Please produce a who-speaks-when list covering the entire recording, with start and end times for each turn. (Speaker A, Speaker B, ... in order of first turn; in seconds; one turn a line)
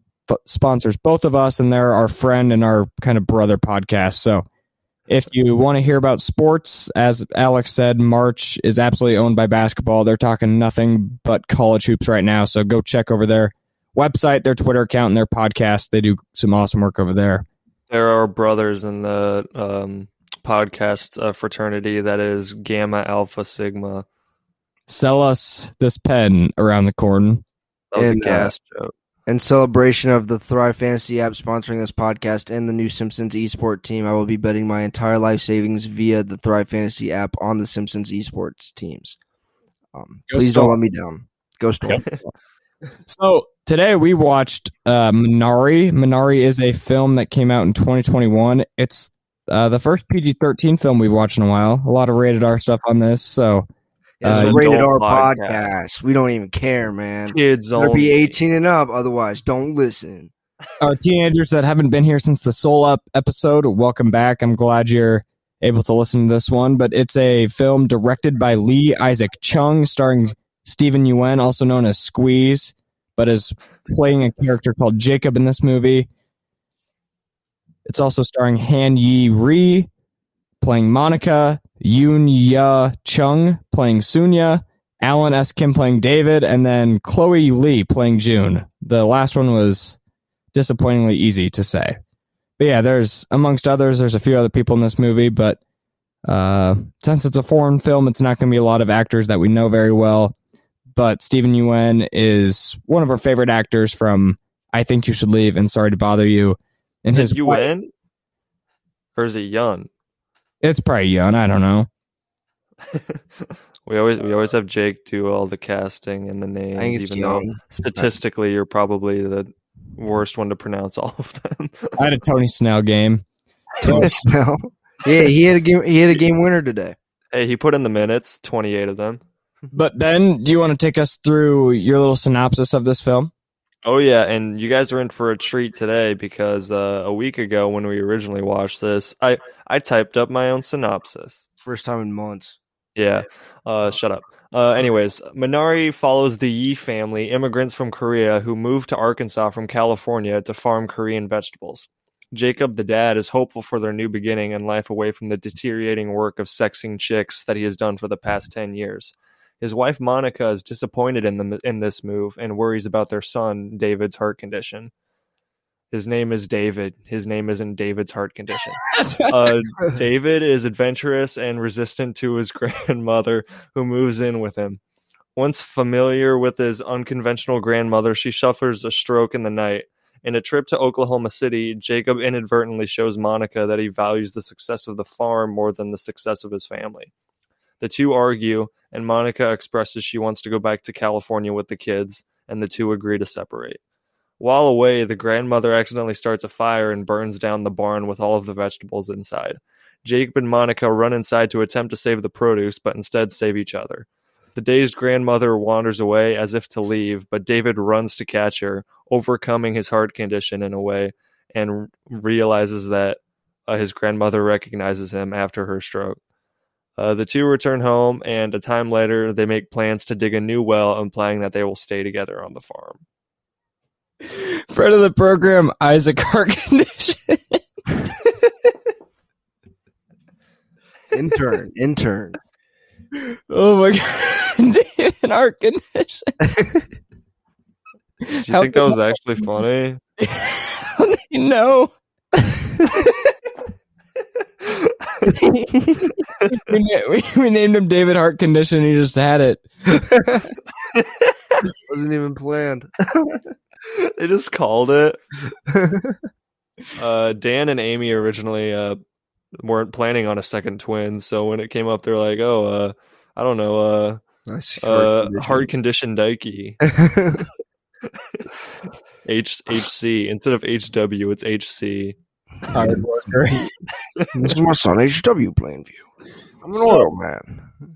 Speaker A: 0.3-4.4
Speaker A: 5.1-17.4
Speaker B: 17.9-24.0
Speaker A: 24.9-27.4
Speaker B: 27.9-28.9
Speaker C: 27.9-28.5
Speaker C: 29.3-39.2
Speaker C: 39.9-42.3
Speaker A: 40.3-40.8
Speaker A: 43.1-53.6
Speaker C: 54.2-60.3
Speaker A: 54.2-54.6
Speaker B: 54.2-55.7
Speaker B: 57.3-58.4
Speaker A: 60.8-76.1
Speaker A: 77.8-79.9
Speaker A: 80.6-90.0
Speaker A: 90.5-92.0
Speaker A: 92.6-95.6
Speaker A: 96.2-100.3
Speaker A: 100.9-107.6
Speaker B: 107.1-107.9
Speaker B: 109.2-109.9
Speaker A: 110.6-111.9
Speaker B: 113.8-122.0
Speaker C: 116.8-118.1
Speaker A: 122.0-123.2
Speaker C: 123.8-126.9
Speaker A: 123.8-124.1
Speaker B: 127.3-129.2
Speaker A: 129.7-133.3
Speaker B: 133.8-141.4
Speaker C: 141.6-142.6
Speaker B: 142.9-164.9
Speaker B: 165.9-174.8
Speaker A: 168.9-169.3
Speaker B: 175.3-187.1
Speaker B: 187.8-193.8
Speaker B: 194.4-216.2
Speaker B: 216.9-223.0
Speaker A: 224.2-227.6
Speaker C: 231.1-232.4
Speaker A: 233.2-236.3
Speaker C: 236.4-236.8
Speaker A: 238.3-238.9
Speaker B: 238.4-240.0
Speaker A: 240.2-241.9
Speaker B: 244.6-245.2
Speaker C: 245.2-246.1
Speaker A: 246.6-249.7
Speaker C: 249.9-250.4
Speaker B: 250.9-251.3
Speaker C: 251.8-253.4
Speaker B: 253.9-255.2
Speaker C: 255.7-256.2
Speaker B: 256.9-259.0
Speaker B: 259.6-264.2
Speaker C: 264.5-265.7
Speaker B: 264.8-266.8
Speaker C: 266.8-267.5
Speaker B: 269.2-272.2
Speaker A: 272.7-273.7
Speaker C: 274.3-276.0
Speaker C: 276.6-277.7
Speaker A: 276.7-277.1